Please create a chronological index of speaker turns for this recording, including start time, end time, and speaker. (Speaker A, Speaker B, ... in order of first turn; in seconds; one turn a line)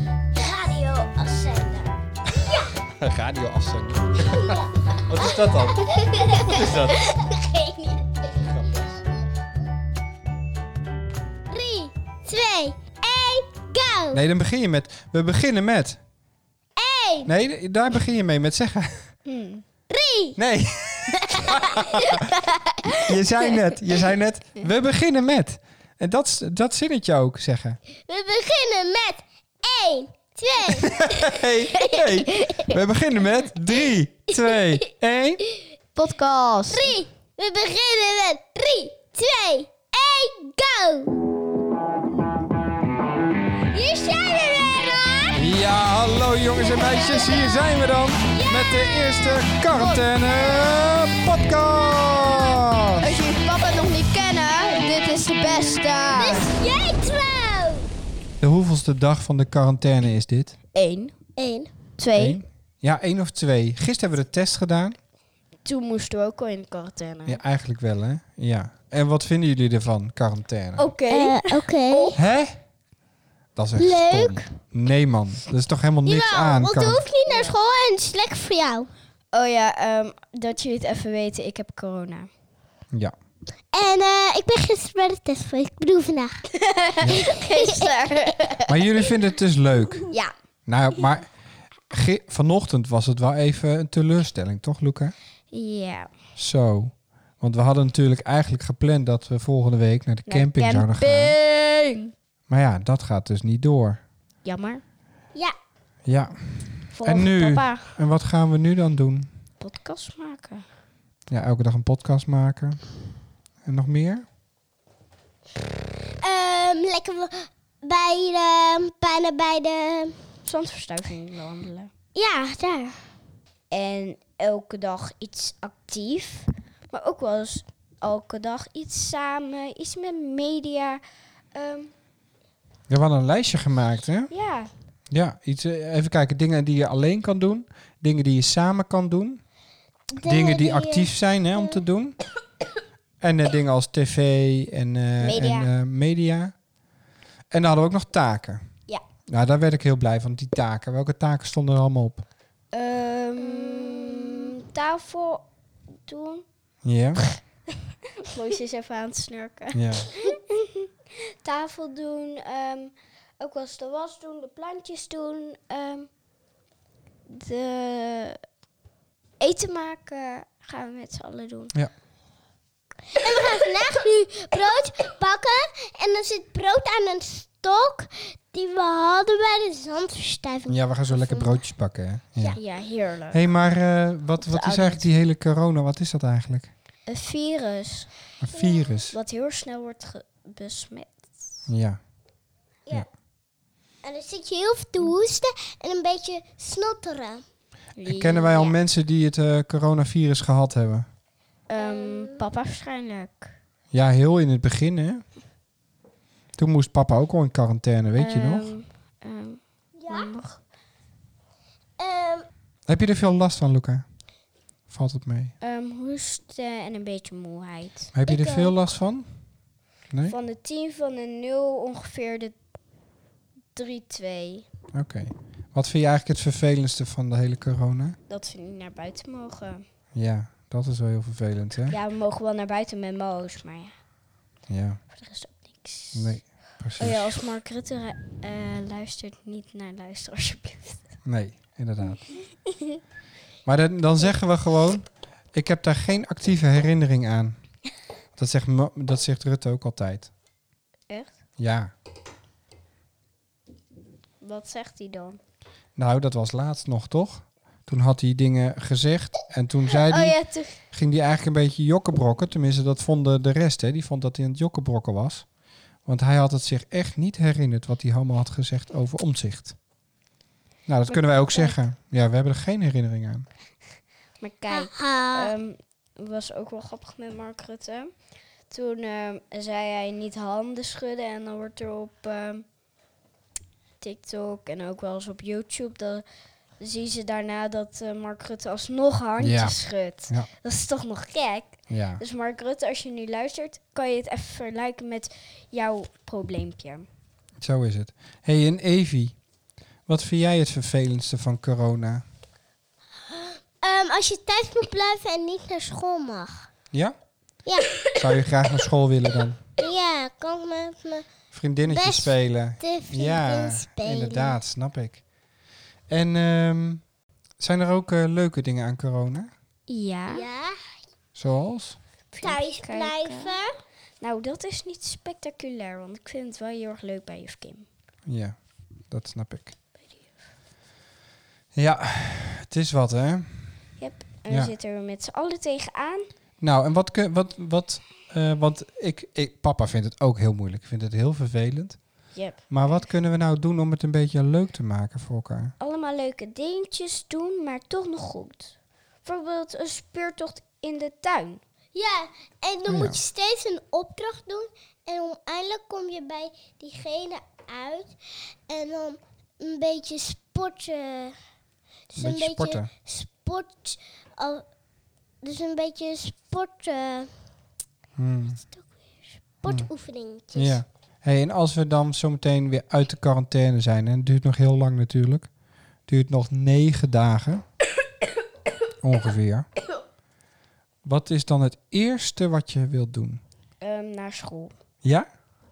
Speaker A: 0.4-1.9
Speaker B: 2.5-7.0
Speaker A: 5.2-8.0
Speaker B: 8.5-8.9
Speaker A: 11.5-14.2
Speaker B: 14.1-16.0
Speaker A: 16.8-17.3
Speaker B: 17.2-19.1
Speaker C: 19.2-19.6
Speaker A: 19.9-20.4
Speaker B: 20.4-22.2
Speaker B: 23.0-27.8
Speaker A: 28.1-31.0
Speaker B: 30.8-35.4
Speaker C: 36.0-36.9
Speaker A: 36.7-41.2
Speaker A: 43.7-45.4
Speaker B: 45.4-53.0
Speaker A: 46.8-47.7
Speaker A: 48.3-49.4
Speaker C: 53.0-56.5
Speaker A: 56.1-57.9
Speaker B: 58.4-60.5
Speaker C: 60.7-61.1
Speaker A: 61.4-61.7
Speaker C: 62.0-62.4
Speaker B: 62.1-65.0
Speaker C: 65.6-67.4
Speaker B: 67.2-70.9
Speaker C: 70.8-72.2
Speaker A: 71.1-72.2
Speaker B: 72.1-72.6
Speaker B: 73.5-77.0
Speaker A: 73.8-74.5
Speaker A: 76.0-78.9
Speaker C: 77.3-77.5
Speaker C: 79.3-82.3
Speaker A: 83.7-86.4
Speaker C: 86.5-88.7
Speaker B: 87.0-87.3
Speaker A: 87.2-87.9
Speaker B: 88.7-90.0
Speaker B: 90.7-91.3
Speaker B: 91.9-95.1
Speaker C: 95.5-96.1
Speaker B: 96.4-101.4
Speaker C: 100.3-102.1
Speaker B: 102.5-104.0
Speaker C: 104.4-104.8
Speaker B: 106.0-109.3
Speaker C: 106.9-107.9
Speaker C: 109.6-110.6
Speaker B: 111.3-112.8
Speaker B: 113.6-114.2
Speaker A: 116.2-120.2
Speaker C: 120.5-121.9
Speaker A: 122.1-123.0
Speaker C: 123.7-131.0
Speaker C: 131.5-131.9
Speaker B: 132.9-134.3
Speaker C: 134.3-134.7
Speaker B: 135.1-139.4
Speaker A: 140.2-141.8
Speaker B: 140.2-142.2
Speaker B: 143.2-146.5
Speaker C: 145.2-145.7
Speaker B: 147.5-148.6
Speaker B: 149.3-152.2
Speaker C: 152.7-155.4
Speaker A: 153.4-154.5
Speaker C: 156.1-156.4
Speaker B: 156.8-157.2
Speaker C: 158.3-160.9
Speaker B: 159.7-160.1
Speaker C: 161.4-166.1
Speaker C: 167.3-168.4
Speaker C: 169.4-171.7
Speaker A: 173.2-181.6
Speaker B: 180.7-182.6
Speaker C: 182.5-183.5
Speaker B: 183.3-186.7
Speaker C: 184.4-185.1
Speaker C: 187.1-188.1
Speaker B: 188.4-189.2
Speaker A: 188.5-189.0
Speaker C: 189.1-191.7
Speaker B: 191.7-192.0
Speaker A: 194.0-197.4
Speaker C: 198.0-198.8
Speaker B: 198.1-201.1
Speaker C: 201.7-203.5
Speaker A: 201.8-202.4
Speaker B: 203.9-205.2
Speaker B: 206.6-208.7
Speaker C: 208.2-210.6
Speaker A: 210.0-210.3
Speaker A: 212.0-212.5
Speaker B: 212.9-214.1
Speaker B: 214.9-215.5
Speaker C: 215.6-218.7
Speaker B: 218.1-219.3
Speaker B: 220.1-220.4
Speaker C: 220.3-222.6
Speaker C: 223.8-224.7
Speaker B: 224.9-228.2
Speaker C: 228.3-229.8
Speaker B: 230.2-232.0
Speaker C: 231.9-233.9
Speaker B: 234.7-235.0
Speaker C: 235.1-236.4
Speaker B: 236.1-237.3
Speaker C: 237.0-241.0
Speaker B: 241.2-242.3
Speaker B: 243.7-247.6
Speaker B: 248.4-250.3
Speaker B: 251.6-251.9
Speaker C: 254.4-255.4
Speaker B: 255.9-265.4
Speaker C: 259.9-260.8
Speaker B: 266.1-269.8
Speaker B: 270.9-273.5
Speaker C: 271.1-271.8
Speaker C: 274.4-278.1
Speaker A: 274.7-275.5
Speaker C: 278.7-282.7
Speaker C: 284.0-286.2
Speaker C: 286.8-297.1
Speaker B: 289.4-290.5
Speaker B: 291.9-292.2
Speaker B: 297.6-299.4
Speaker B: 300.1-302.2
Speaker A: 303.8-306.7
Speaker A: 307.7-308.0
Speaker B: 308.1-309.6
Speaker A: 309.8-311.2
Speaker B: 311.5-315.2
Speaker A: 311.9-314.6
Speaker B: 316.1-317.0
Speaker B: 317.6-319.5
Speaker C: 319.9-320.5
Speaker A: 320.3-320.8
Speaker B: 321.4-322.0
Speaker C: 322.3-323.6
Speaker A: 322.4-323.7
Speaker C: 324.2-327.9
Speaker B: 328.3-328.6
Speaker B: 329.1-329.8
Speaker B: 331.8-333.6
Speaker C: 334.0-336.3
Speaker B: 336.6-345.7
Speaker C: 342.3-342.6
Speaker C: 345.8-351.6
Speaker A: 351.9-358.1
Speaker B: 352.9-353.2
Speaker A: 358.7-361.4
Speaker A: 362.1-364.6
Speaker B: 362.1-362.9
Speaker A: 365.4-367.3
Speaker B: 368.2-368.6
Speaker A: 369.6-370.8
Speaker B: 370.5-375.5
Speaker B: 376.1-377.6
Speaker B: 379.0-379.7
Speaker B: 381.1-383.4
Speaker C: 383.8-384.8